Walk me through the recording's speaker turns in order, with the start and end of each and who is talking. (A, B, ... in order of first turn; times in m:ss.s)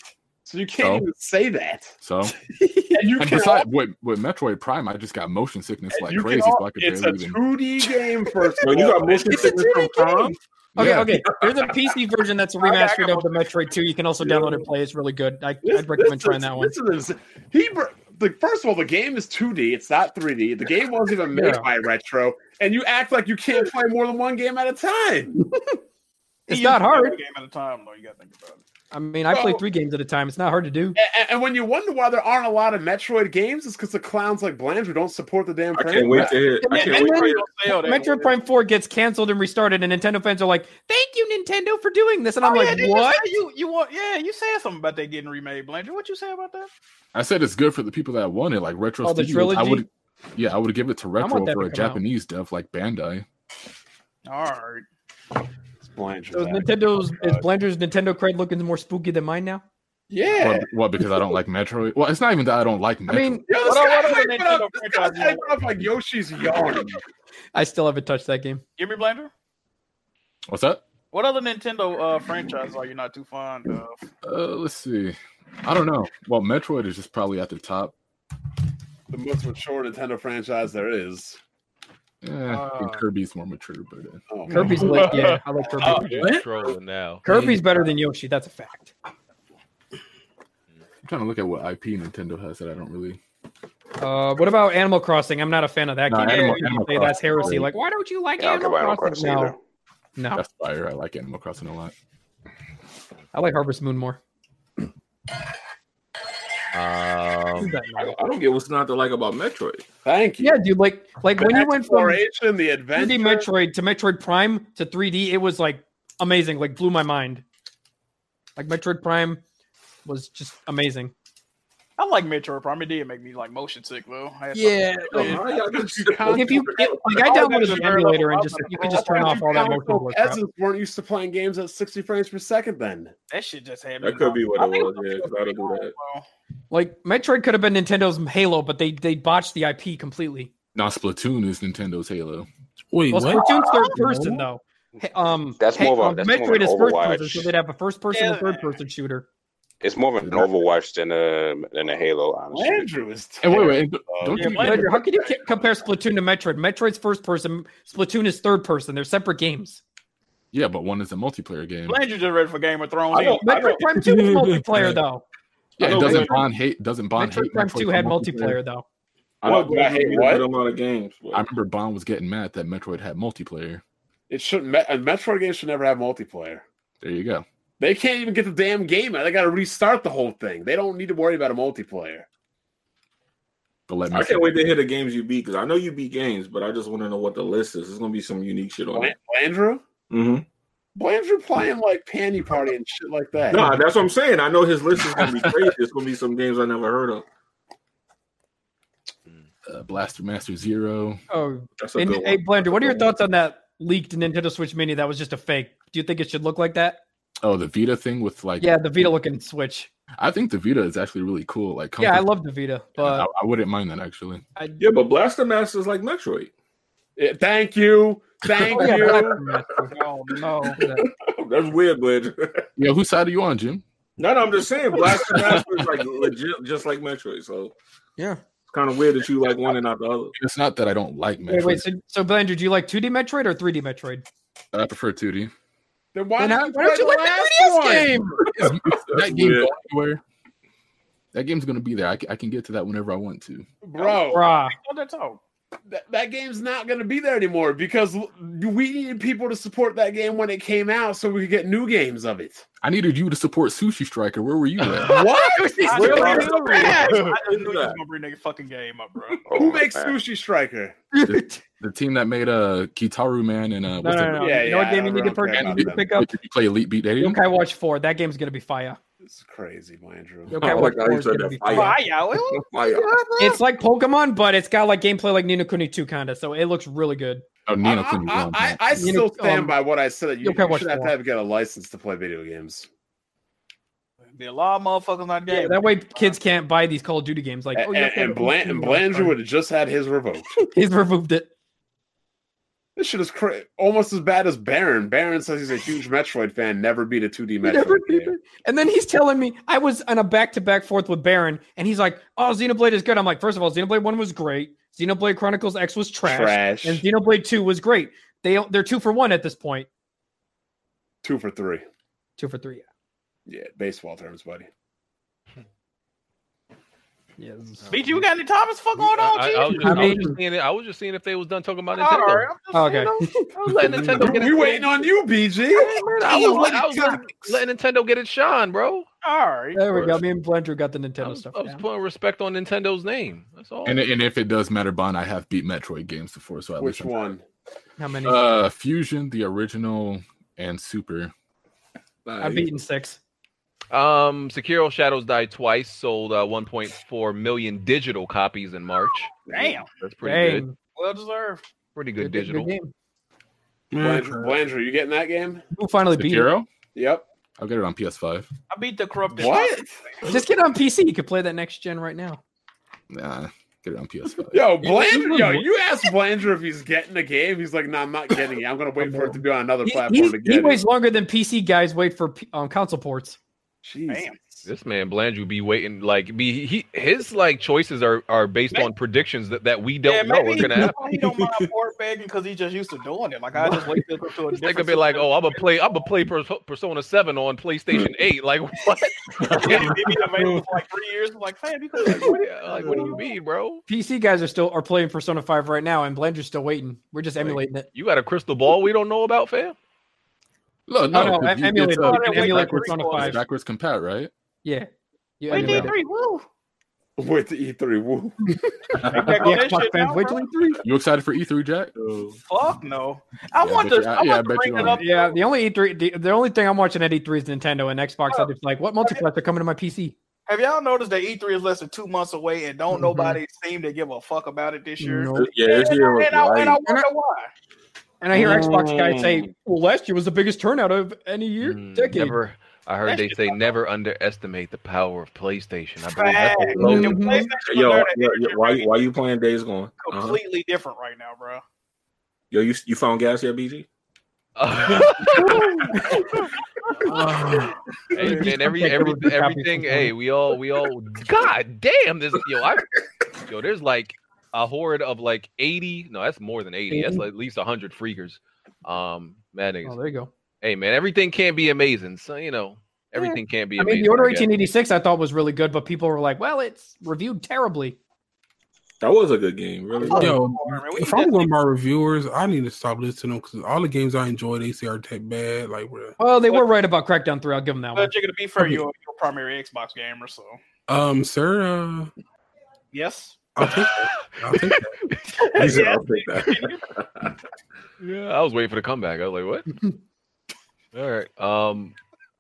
0:00.4-0:02.0 A
0:00.8-0:01.1 B
0:02.0-0:02.4 B
0:02.5-0:03.1 C
0:02.9-0:03.7 A
0:03.2-0:07.4 B
0:05.9-0:09.6 A
0:08.6-0:10.3 D
0:09.3-0:16.7 C
0:10.8-0:11.3 B
0:12.6-0:13.8 E
0:15.6-0:25.4 A
0:21.3-0:21.7 C
0:25.4-0:25.8 C
0:26.5-0:27.2 C
0:26.5-0:28.6 E
0:28.9-0:31.0 C
0:29.3-0:29.6 A
0:31.0-0:36.5 A
0:35.8-0:37.5 D
0:36.2-0:43.2 C
0:36.7-0:38.4 E
0:42.4-0:46.7 E
0:47.1-0:53.3 B
0:49.0-0:49.9 C
0:51.2-0:52.0 C
0:54.3-0:54.9 E
0:55.8-0:57.4 A
0:56.3-0:59.6 C
1:00.1-1:00.7 A
1:00.4-1:03.4 B
1:03.1-1:03.4 C
1:03.5-1:07.0 A
1:03.5-1:05.5 E
1:07.6-1:08.6 C
1:08.8-1:09.3 E
1:10.5-1:10.8 B
1:11.1-1:14.0 E
1:14.2-1:17.9 B
1:19.1-1:21.4 A
1:22.2-1:24.9 B
1:22.5-1:22.9 E
1:24.3-1:25.2 A
1:24.5-1:26.2 C
1:25.8-1:27.2 F
1:25.8-1:26.3 A
1:27.2-1:29.0 C
1:31.0-1:33.2 B
1:34.0-1:39.6 C
1:36.1-1:37.7 B
1:36.3-1:36.6 E
1:38.4-1:39.6 G
1:40.2-1:40.4 C
1:40.3-1:41.9 B
1:43.3-1:44.2 C
1:46.7-1:47.8 F
1:47.6-1:48.2 C
1:48.0-1:49.8 D
1:50.0-1:50.6 A
1:50.4-1:52.2 C
1:51.4-1:53.5 A
1:53.0-1:57.4 C
1:58.6-1:59.4 C
2:00.1-2:01.1 C
2:02.0-2:05.4 E
2:04.5-2:05.4 C
2:05.1-2:07.3 D
2:05.1-2:08.0 A
2:06.3-2:10.4 C
2:07.1-2:09.5 E
2:08.8-2:13.1 A
2:13.3-2:16.3 E
2:14.0-2:16.0 D
2:16.7-2:20.5 C
2:20.8-2:22.5 B
2:22.9-2:24.4 H
2:23.1-2:29.3 C
2:25.6-2:27.5 G
2:28.1-2:28.8 E
2:29.8-2:32.9 G
2:30.2-2:30.5 B
2:32.5-2:33.8 A
2:33.4-2:34.9 B
2:34.1-2:34.5 G
2:34.3-2:35.4 E
2:34.6-2:39.8 C
2:40.5-2:42.0 B
2:41.9-2:43.8 E
2:43.1-2:43.9 D
2:43.4-2:45.2 C
2:43.9-2:45.0 H
2:45.8-2:48.6 B
2:45.8-2:46.5 D
2:47.2-2:48.8 C
2:49.4-2:51.4 D
2:49.4-2:50.5 A
2:51.3-2:53.8 B
2:54.3-2:56.6 A
2:57.0-2:57.4 B
2:57.8-3:02.3 A
3:03.9-3:04.6 B
3:04.1-3:09.1 D
3:08.9-3:09.8 A
3:10.1-3:10.4 D
3:11.0-3:13.8 A
3:13.5-3:17.2 D
3:15.1-3:15.7 B
3:19.7-3:21.2 B
3:21.3-3:27.0 C
3:21.8-3:23.1 D
3:27.4-3:29.1 B
3:28.6-3:29.9 C
3:30.2-3:32.3 B
3:32.0-3:33.3 C
3:33.0-3:34.4 B
3:34.6-3:34.8 C
3:34.8-3:36.5 D
3:37.2-3:39.4 A
3:38.7-3:39.9 C
3:39.8-3:40.8 E
3:40.8-3:41.1 C
3:41.0-3:42.7 D
3:42.8-3:43.8 B
3:44.2-3:47.7 D
3:45.0-3:46.0 B
3:48.7-3:50.3 D
3:50.4-3:51.8 B
3:51.5-3:54.2 C
3:54.7-3:55.5 B
3:56.1-3:58.3 A
3:56.4-3:58.5 C
3:58.4-4:00.2 B
3:59.1-3:59.7 D
4:01.3-4:03.7 B
4:03.8-4:04.5 A
4:04.0-4:05.4 E
4:04.3-4:04.8 C
4:05.9-4:12.6 A
4:12.8-4:15.1 B
4:15.1-4:17.0 A
4:15.1-4:17.2 C
4:15.8-4:19.4 E
4:15.9-4:18.0 D
4:19.5-4:20.2 G
4:19.5-4:21.0 A
4:21.1-4:21.6 C
4:21.3-4:24.5 B
4:24.0-4:26.3 C
4:24.4-4:26.1 A
4:25.5-4:27.4 B
4:27.2-4:29.0 C
4:29.2-4:30.6 A
4:30.5-4:32.0 C
4:30.5-4:33.2 D
4:31.7-4:33.6 E
4:33.4-4:37.4 C
4:37.7-4:38.8 B
4:37.8-4:42.9 A
4:39.0-4:39.8 C
4:40.4-4:41.1 C
4:44.3-4:46.4 E
4:45.5-4:49.4 C
4:47.8-4:50.5 A
4:50.5-4:51.5 C
4:53.0-4:58.3 A
4:57.6-5:09.9 C
5:06.2-5:07.0 A
5:11.2-5:11.8 A
5:12.4-5:12.9 C
5:13.5-5:14.7 A
5:17.4-5:17.9 C
5:17.9-5:18.2 F
5:17.9-5:20.2 E
5:19.0-5:22.5 F
5:19.8-5:20.4 C
5:22.0-5:23.3 E
5:22.7-5:23.5 C
5:23.5-5:25.0 F
5:24.1-5:26.6 A
5:25.7-5:29.1 F
5:26.3-5:27.2 E
5:29.2-5:29.8 E
5:29.8-5:31.8 C
5:31.2-5:34.0 F
5:33.8-5:37.2 B
5:36.8-5:37.4 A
5:38.0-5:38.5 C
5:38.2-5:41.3 B
5:42.3-5:42.7 D
5:42.4-5:43.2 C
5:43.9-5:50.6 F
5:49.5-5:49.9 E
5:50.2-5:50.8 C
5:51.0-5:51.6 E
5:52.0-5:52.7 F
5:52.2-5:52.9 C
5:53.9-5:54.6 H
5:54.0-5:55.6 A
5:55.8-5:56.5 C
5:56.1-5:56.7 B
5:56.9-5:57.2 A
5:57.6-5:58.5 B
5:58.7-6:00.3 E
5:59.4-6:00.0 A
6:00.2-6:02.4 C
6:03.1-6:04.7 B
6:04.5-6:10.8 A
6:09.0-6:13.4 C
6:13.8-6:14.7 A
6:14.1-6:14.4 E
6:14.6-6:21.0 F
6:20.0-6:25.7 E
6:20.6-6:21.7 H
6:24.5-6:30.0 F
6:29.5-6:33.2 E
6:32.1-6:33.8 F
6:33.9-6:37.9 C
6:37.4-6:39.8 F
6:40.9-6:44.3 B
6:41.1-6:43.4 C
6:41.9-6:43.4 E
6:44.6-6:44.9 C
6:45.4-6:46.0 C
6:45.5-6:46.5 E
6:47.2-6:48.6 A
6:49.0-6:50.5 E
6:49.1-6:50.8 C
6:50.8-6:51.9 B
6:52.0-6:52.3 D
6:52.4-6:55.4 E
6:53.6-6:55.0 B
6:55.0-7:00.2 C
6:58.3-6:59.2 E
7:00.5-7:07.5 E
7:02.9-7:03.4 C
7:05.0-7:05.5 C
7:05.4-7:06.8 D
7:08.2-7:12.4 C
7:08.3-7:09.5 D
7:11.6-7:17.1 F
7:13.1-7:13.6 E
7:16.1-7:19.0 E
7:16.8-7:17.5 C
7:16.8-7:20.4 D
7:20.0-7:21.6 E
7:22.5-7:23.9 D
7:24.6-7:25.8 F
7:27.1-7:27.8 H
7:28.1-7:40.0 F
7:28.2-7:30.1 C
7:36.9-7:37.2 C
7:39.8-7:40.3 C
7:40.6-7:44.5 F
7:43.2-7:48.0 C
7:49.0-7:50.4 D
7:50.0-7:51.5 E
7:50.1-7:56.2 H
7:56.2-7:58.1 C
7:57.9-8:00.6 E
8:00.9-8:02.1 H
8:02.9-8:03.5 E
8:03.6-8:04.9 H
8:03.7-8:04.7 F
8:05.5-8:06.8 E
8:05.6-8:07.3 D
8:08.0-8:09.7 F
8:10.9-8:12.0 F